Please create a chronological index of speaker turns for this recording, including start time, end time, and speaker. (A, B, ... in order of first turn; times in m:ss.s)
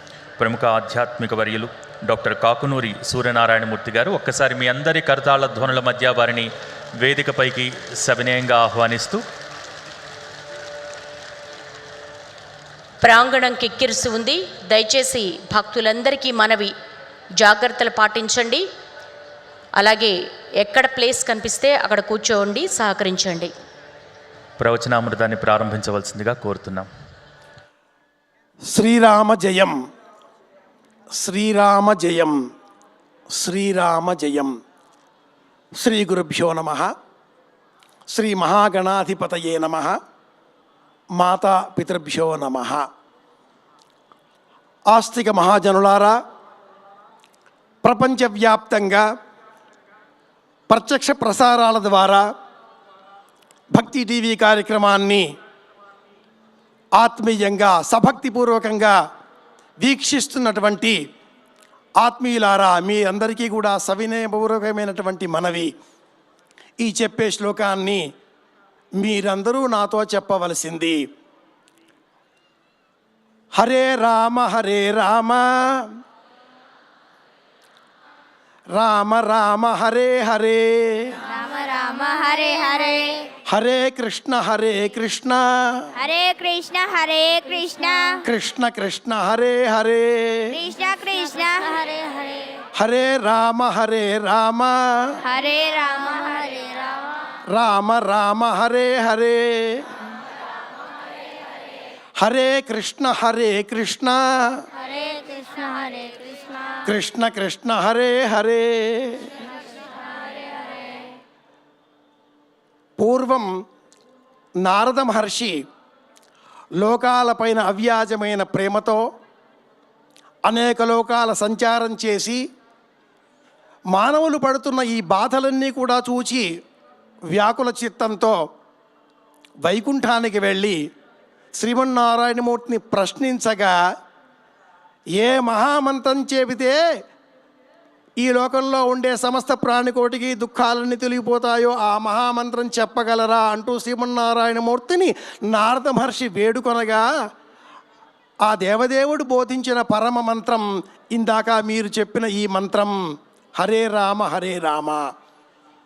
0:00.4-0:06.5 A
0:07.0-0:09.2 A
0:13.0-0:16.7 B
0:17.4-0:18.6 B
0:19.8-0:23.5 B
0:24.6-0:26.9 A
0:28.7-0:29.7 C
0:31.2-0:32.3 C
0:33.3-0:34.5 C
0:35.8-0:36.9 C
0:38.1-0:40.0 C
0:41.2-0:42.8 C
0:44.9-0:46.2 C
0:47.8-0:49.0 C
0:50.7-0:52.2 C
0:53.7-0:55.2 C
0:57.0-0:58.9 C
0:59.8-1:01.0 C
1:02.0-1:05.7 C
1:06.8-1:08.0 C
1:09.0-1:11.0 C
1:13.6-1:15.9 C
1:18.7-1:21.2 C
1:21.2-1:23.3 D
1:23.5-1:25.9 C
1:26.0-1:28.2 D
1:28.2-1:30.6 C
1:30.5-1:32.6 D
1:32.8-1:35.2 C
1:35.2-1:37.2 D
1:37.5-1:39.9 C
1:42.2-1:44.6 C
1:44.8-1:46.8 D
1:46.8-1:49.3 C
1:50.2-1:51.0 D
1:53.0-1:53.5 C
1:54.6-1:55.5 C
1:56.8-1:59.0 C
2:00.5-2:02.4 C
2:03.9-2:06.4 C
2:07.3-2:08.4 C
2:09.6-2:10.8 C
2:11.6-2:13.7 C
2:15.2-2:16.8 C
2:18.2-2:27.0 C
2:28.4-2:32.9 C
2:33.6-2:35.0 C